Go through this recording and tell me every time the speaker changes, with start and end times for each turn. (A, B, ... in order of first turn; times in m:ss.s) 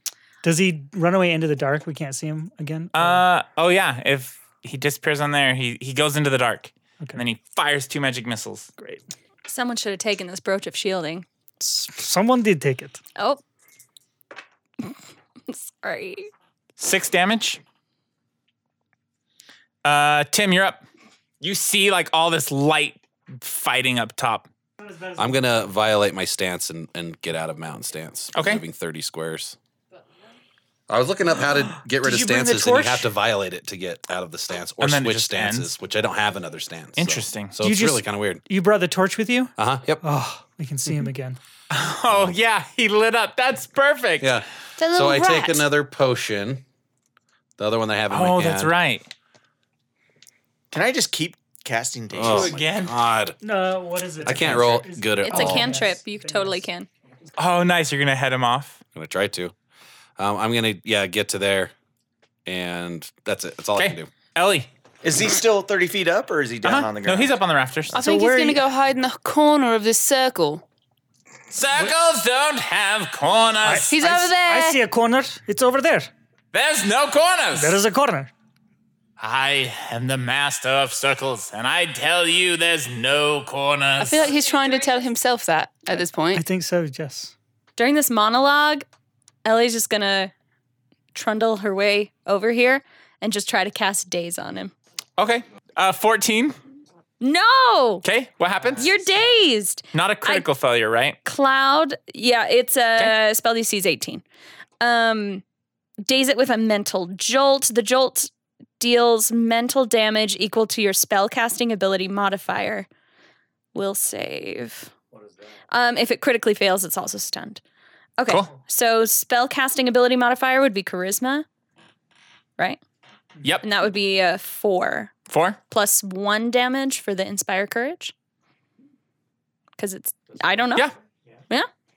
0:00.4-0:03.2 A
0:02.9-0:08.7 B
0:08.8-0:09.0 A
0:09.5-0:11.2 C
0:11.6-0:13.0 A
0:13.2-0:13.4 C
0:15.5-0:16.3 C
0:16.8-0:17.6 B
0:19.8-0:20.8 B
0:21.4-0:24.5 B
0:24.8-0:25.4 A
0:25.2-0:29.6 D
0:28.4-0:28.6 B
0:30.9-0:38.4 D
0:32.0-0:33.1 A
0:34.8-0:35.7 B
0:37.0-0:37.6 B
0:37.6-0:41.4 A
0:39.6-0:40.0 D
0:41.7-0:44.4 B
0:44.2-0:46.6 D
0:44.8-0:45.6 E
0:47.6-0:48.7 D
0:48.1-0:49.1 B
0:50.7-0:52.6 F
0:52.1-0:53.4 D
0:52.2-0:52.9 B
0:53.4-0:56.6 A
0:54.2-0:55.8 D
0:55.2-0:56.9 C
0:57.4-0:58.8 B
0:58.9-0:59.5 D
1:00.2-1:01.7 D
1:02.5-1:04.1 D
1:03.8-1:04.7 B
1:05.0-1:07.2 F
1:06.6-1:08.0 B
1:07.9-1:10.6 E
1:07.9-1:08.6 A
1:11.5-1:13.9 B
1:13.6-1:16.1 A
1:13.9-1:14.8 E
1:16.5-1:17.8 B
1:17.5-1:18.3 A
1:19.2-1:24.3 B
1:24.0-1:26.4 E
1:26.3-1:27.3 A
1:27.8-1:28.9 C
1:29.4-1:30.3 C
1:31.1-1:34.7 C
1:35.2-1:36.6 B
1:37.2-1:38.0 C
1:38.0-1:38.9 B
1:38.8-1:40.5 C
1:39.9-1:41.2 B
1:41.2-1:44.2 C
1:44.8-1:45.4 C
1:46.0-1:52.9 C
1:53.7-1:54.9 C
1:55.7-1:57.6 C
1:58.2-2:01.5 C
2:03.6-2:05.1 C
2:05.3-2:05.6 B
2:05.7-2:08.1 C
2:09.8-2:10.9 C